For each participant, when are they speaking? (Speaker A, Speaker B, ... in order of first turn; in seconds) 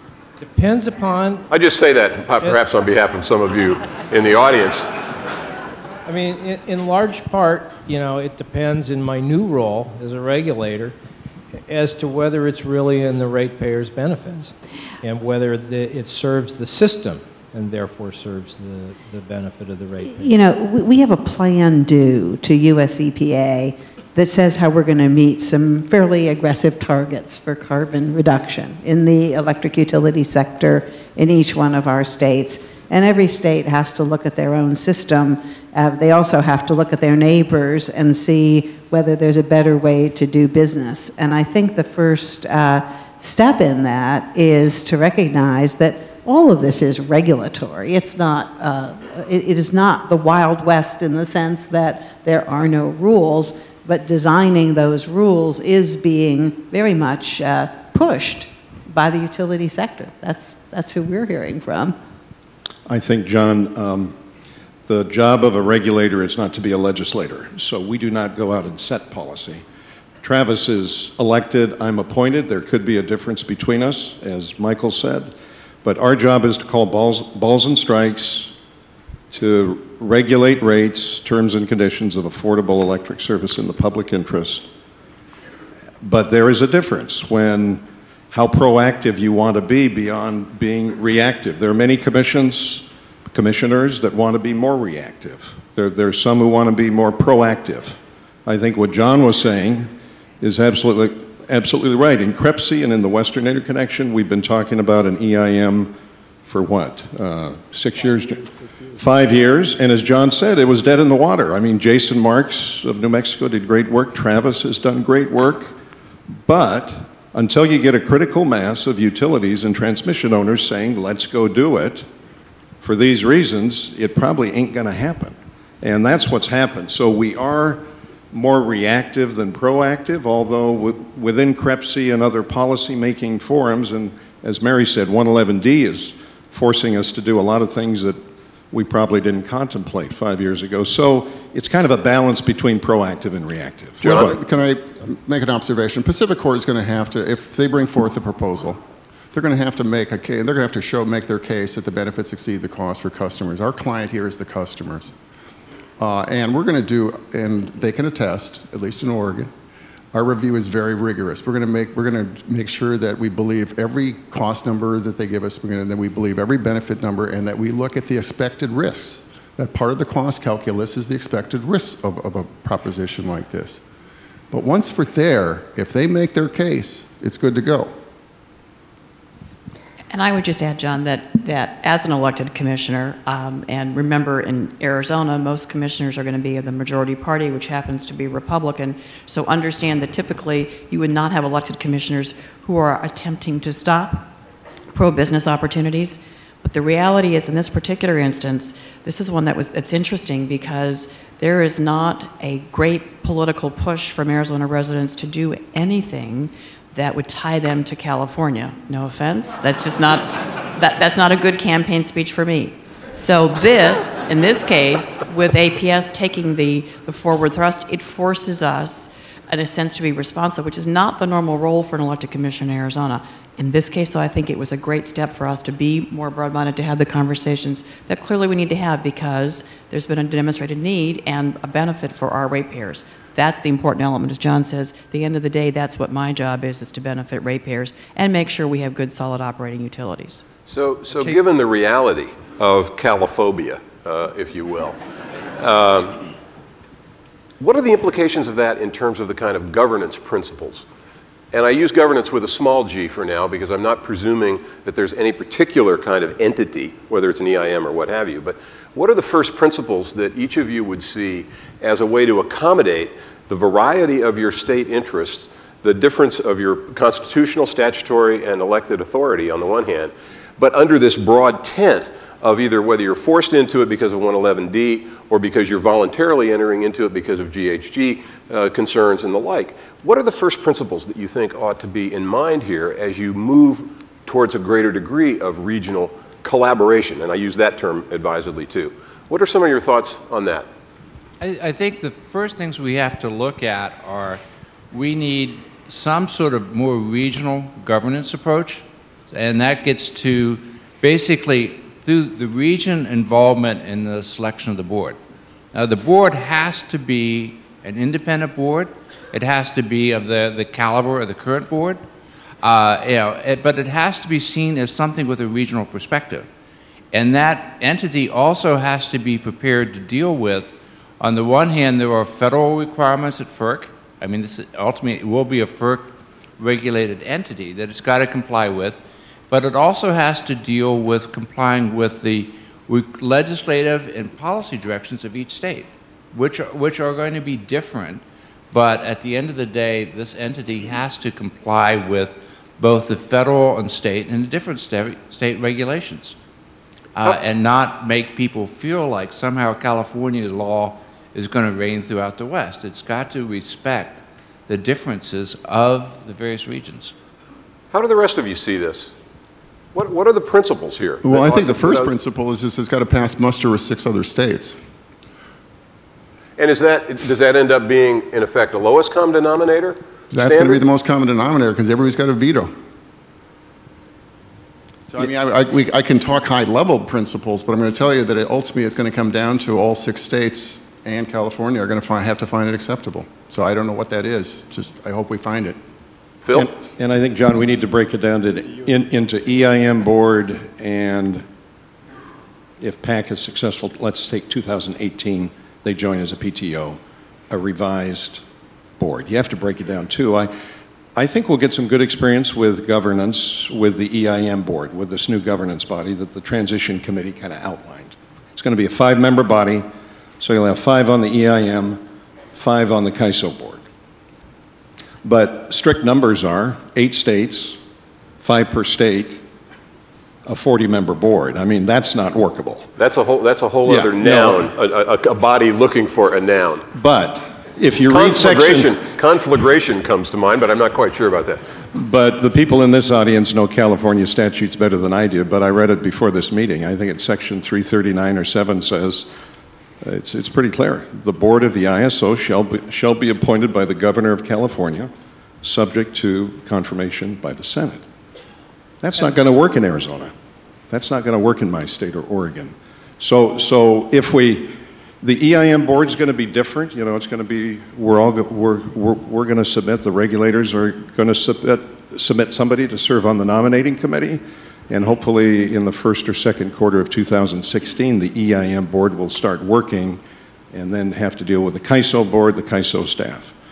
Speaker A: 0.4-1.5, 6.1-10.9, 11.7-20.3
Speaker B: 1.5-4.9, 144.0-144.4, 240.7-245.0, 245.6-246.3, 247.6-250.9, 251.5-290.7, 357.9-359.1, 359.9-362.1, 366.6-370.8, 386.4-386.7, 423.0-426.9, 428.1-431.6
Speaker C: 20.1-62.0
Speaker D: 62.9-64.2, 64.9-69.6, 70.2-75.3, 75.8-78.5, 79.3-84.7, 86.0-115.8, 116.3-122.1, 122.8-144.4, 386.5-391.4, 392.8-398.4, 399.0-400.5, 401.1-409.9, 410.4-412.0, 412.5-413.8, 415.2-417.8, 418.4-419.4, 420.5-422.9, 423.9-424.7, 426.9-429.0, 431.9-439.3, 440.0-445.1, 445.6-448.0, 449.0-450.3, 450.9-470.2, 470.7-473.5
Speaker E: 144.0-148.8, 149.3-155.1, 156.0-159.5, 160.1-173.8, 174.5-177.9, 361.2-364.8, 370.3-372.7, 375.1-385.8
Speaker F: 180.1-194.3, 194.9-240.5
Speaker G: 291.4-305.2, 305.7-312.0, 312.6-316.5, 317.1-329.0, 329.5-346.4, 347.2-357.1